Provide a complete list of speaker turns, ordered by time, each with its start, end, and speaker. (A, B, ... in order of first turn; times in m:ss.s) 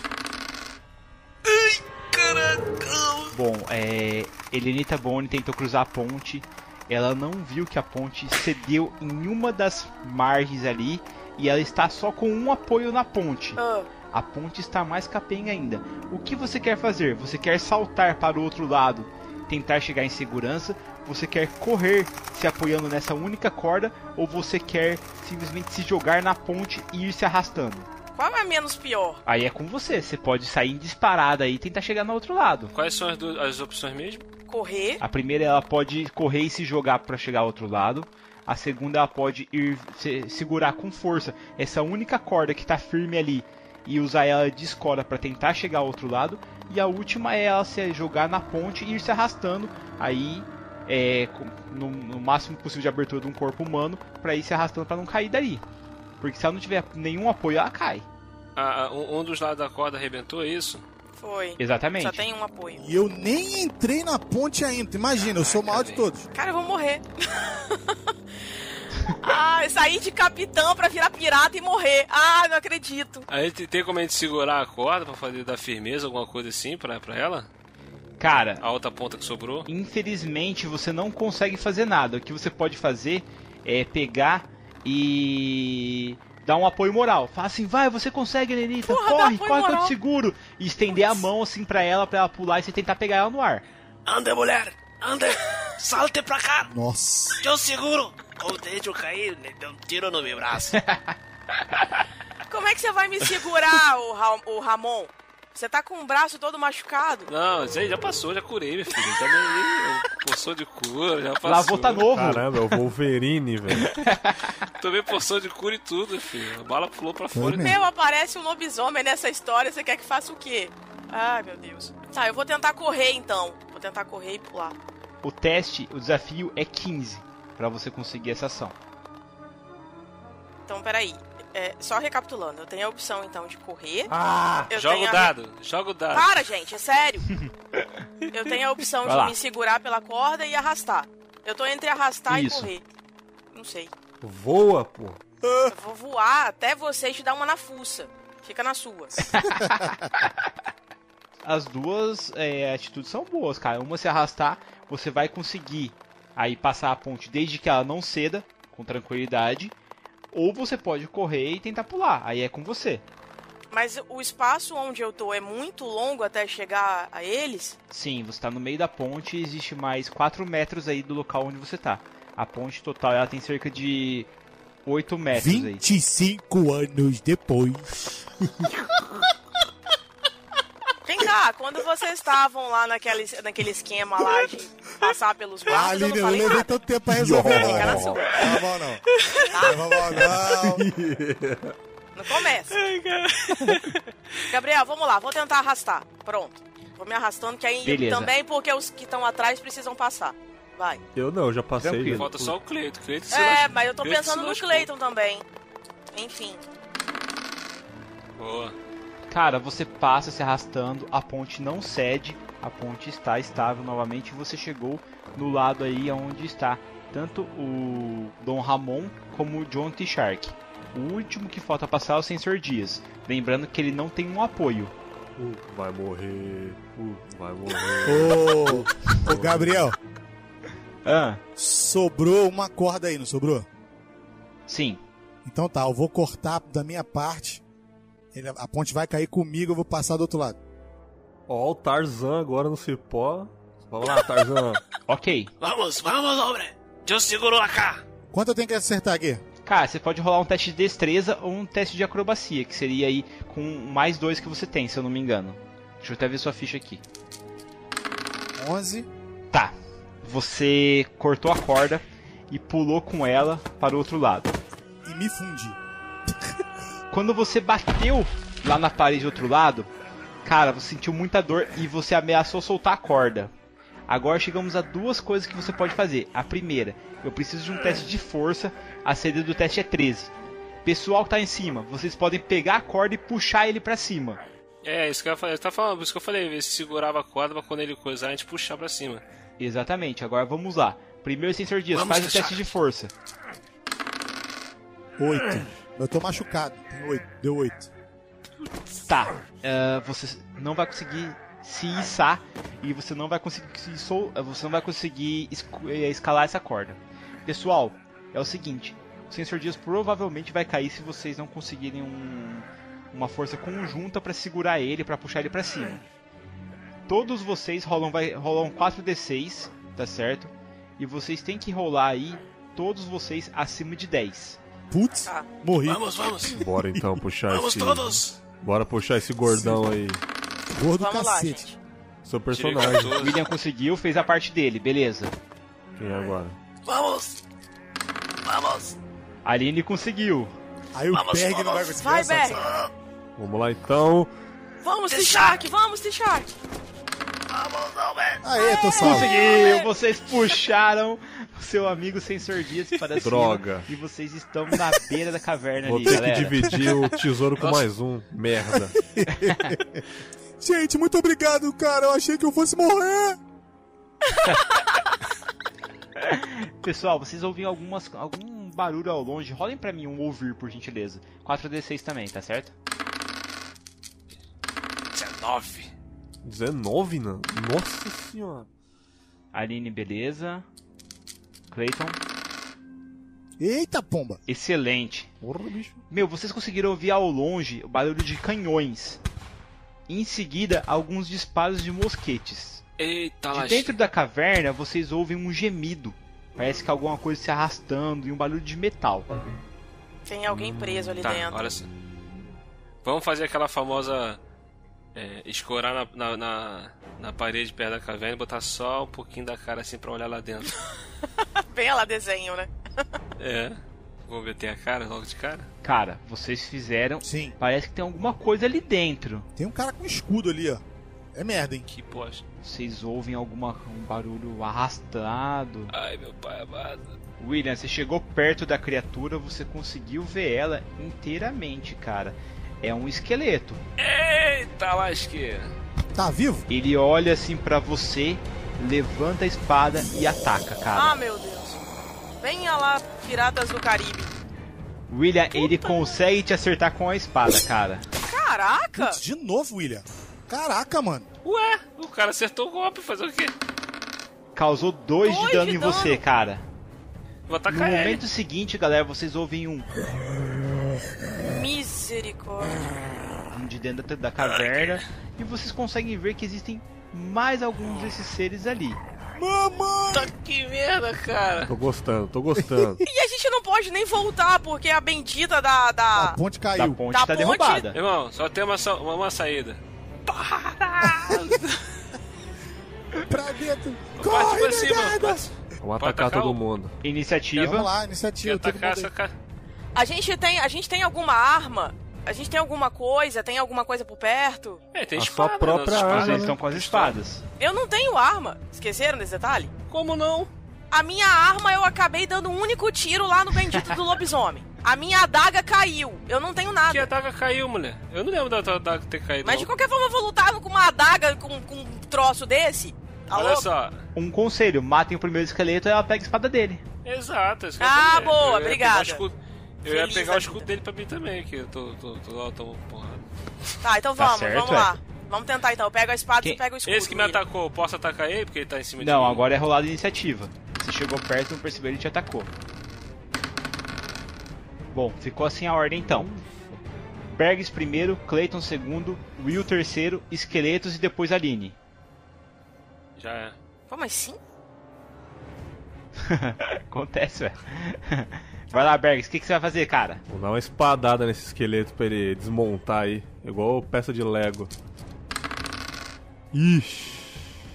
0:01.5-0:03.3 A
0:03.3-0:13.6 B
0:13.6-0:13.9 C
0:14.1-0:27.9 B
0:28.2-0:29.2 C
0:29.3-0:32.7 B
0:32.7-0:34.3 D
0:34.5-0:35.0 C
0:35.0-0:55.6 B
0:56.2-0:58.1 B
0:58.6-1:00.8 D
1:01.2-1:02.8 C
1:01.6-1:02.2 B
1:02.8-1:06.3 E
1:05.5-1:06.0 D
1:06.4-1:08.0 C
1:09.1-1:13.3 C
1:13.3-1:17.5 D
1:18.2-1:18.6 B
1:18.6-1:19.7 D
1:19.7-1:33.6 B
1:28.8-1:30.0 C
1:30.9-1:31.2 C
1:34.1-1:36.7 A
1:36.7-1:37.4 E
1:37.4-1:40.8 A
1:40.8-1:41.1 B
1:42.5-1:47.3 C
1:47.3-1:52.1 D
1:51.4-1:52.5 B
1:52.1-1:53.9 F
1:53.9-1:54.5 B
1:54.8-1:57.7 D
1:57.3-1:57.8 E
1:57.6-2:04.8 C
2:05.2-2:08.8 B
2:10.7-2:14.1 C
2:14.3-2:14.7 F
2:14.7-2:15.3 C
2:14.7-2:16.3 D
2:16.1-2:17.3 C
2:18.3-2:22.8 C
2:19.0-2:19.4 B
2:22.3-2:22.7 B
2:23.5-2:23.9 C
2:24.2-2:25.2 F
2:25.7-2:29.3 C
2:29.3-2:30.3 B
2:31.4-2:39.7 B
2:40.3-2:43.0 B
2:43.7-2:47.8 C
2:47.9-2:54.3 B
2:54.9-2:55.8 B
2:55.3-2:58.0 E
3:01.0-3:06.8 C
3:05.7-3:09.0 E
3:07.1-3:08.2 F
3:07.4-3:08.4 C
3:09.5-3:09.8 C
3:09.6-3:10.9 E
3:10.4-3:11.7 F
3:12.2-3:12.8 C
3:12.9-3:13.2 D
3:14.5-3:21.0 C
3:17.8-3:18.3 B
3:21.2-3:22.6 F
3:21.8-3:22.3 B
3:22.1-3:24.9 D
3:23.3-3:25.5 C
3:26.1-3:26.6 C
3:28.4-3:28.8 D
3:29.3-3:44.9 B
3:45.4-3:49.9 F
3:48.0-3:50.0 E
3:51.0-3:51.4 B
3:51.6-3:53.7 E
3:54.7-3:55.0 B
3:55.4-3:57.6 E
3:58.3-4:00.6 E
4:01.5-4:04.8 F
4:05.1-4:05.5 B
4:05.6-4:08.0 A
4:08.3-4:09.4 E
4:09.6-4:17.0 B
4:18.6-4:19.1 E
4:19.5-4:24.6 B
4:25.0-4:25.8 E
4:27.1-4:29.9 B
4:30.4-4:33.5 B
4:34.1-4:40.3 B
4:40.8-4:44.4 B
4:44.8-4:49.2 D
4:49.6-4:53.1 B
4:51.9-4:52.7 A
4:55.2-4:57.9 E
4:59.1-5:16.0 B
5:17.1-5:24.6 B
5:24.9-5:26.0 E
5:25.8-5:26.6 A
5:26.5-5:30.2 F
5:27.5-5:28.4 A
5:29.4-5:29.8 E
5:30.7-5:31.7 E
5:31.0-5:31.8 C
5:32.2-5:33.2 F
5:32.5-5:33.4 D
5:33.2-5:35.3 B
5:36.0-5:36.6 F
5:36.8-5:37.4 A
5:38.4-5:39.0 A
5:39.4-5:40.5 B
5:40.9-5:42.7 E
5:41.1-5:42.0 A
5:42.0-5:42.7 C
5:42.6-5:42.9 A
5:43.4-5:44.3 F
5:44.8-5:46.5 C
5:45.1-5:45.6 A
5:47.5-5:48.4 A
5:48.4-5:49.3 E
5:48.6-5:49.9 C
5:49.0-5:56.8 B
5:53.2-5:53.9 F
5:55.8-5:59.0 F
5:57.6-5:57.9 D
5:59.1-6:00.0 E
5:59.3-5:59.7 B
6:00.6-6:03.4 E
6:06.2-6:12.7 B
6:15.1-6:15.9 A
6:16.4-6:18.7 F
6:19.5-6:20.7 B
6:21.7-6:22.2 B
6:23.6-6:24.4 E
6:24.5-6:25.3 B
6:25.4-6:26.0 F
6:26.1-6:29.2 B
6:30.1-6:32.8 B
6:33.0-6:34.0 D
6:33.5-6:39.3 B
6:40.3-6:41.7 C
6:40.5-6:41.1 F
6:41.2-6:41.9 D
6:43.0-6:44.4 D
6:45.2-6:50.7 D
6:51.7-6:52.7 C
6:53.4-6:55.7 D
6:55.8-6:59.5 B
6:57.2-6:57.6 E
6:59.6-7:00.8 E
7:01.3-7:01.9 E
7:01.9-7:02.4 D
7:02.6-7:05.9 B
7:05.9-7:07.1 D
7:07.4-7:13.8 B
7:14.0-7:15.7 D
7:16.1-7:16.7 E
7:16.7-7:21.2 B
7:20.9-7:21.8 C
7:22.4-7:24.3 C
7:25.1-7:28.1 B
7:25.5-7:26.1 C
7:28.2-7:29.2 C
7:29.0-7:31.3 E
7:31.4-7:33.5 D
7:34.6-7:36.6 B
7:35.2-7:36.2 C
7:37.5-7:38.2 D
7:37.7-7:39.9 B
7:41.4-7:42.8 C
7:43.5-7:49.0 B
7:49.4-7:50.3 E
7:50.1-7:51.7 D
7:51.7-7:53.0 F
7:53.0-7:56.4 C
7:56.1-7:57.0 E
7:56.8-7:58.0 B
7:57.1-7:57.9 C
7:57.9-7:59.8 D
8:00.4-8:01.6 D
8:01.0-8:01.5 E
8:03.2-8:05.4 E
8:04.2-8:06.6 D
8:05.8-8:07.0 F
8:07.0-8:07.9 B
8:07.6-8:09.1 E
8:08.4-8:09.3 D
8:10.0-8:14.8 C
8:14.9-8:17.2 D
8:15.2-8:16.6 F
8:16.0-8:17.4 B
8:17.6-8:19.7 C
8:19.9-8:20.5 D
8:20.9-8:27.1 C
8:26.9-8:29.7 D
8:29.4-8:33.7 C
8:33.3-8:34.0 D
8:34.2-8:36.8 B
8:37.0-8:43.2 D
8:37.8-8:39.2 C
8:39.8-8:40.7 C
8:43.8-8:47.4 C
8:44.2-8:44.9 B
8:46.8-8:49.4 D
8:49.0-8:52.5 B
8:54.9-8:56.3 B
8:56.0-8:56.8 F
8:57.3-9:01.8 B
9:03.2-9:03.6 D
9:03.9-9:04.4 C
9:06.2-9:10.2 B
9:10.3-9:14.7 F
9:16.5-9:17.5 F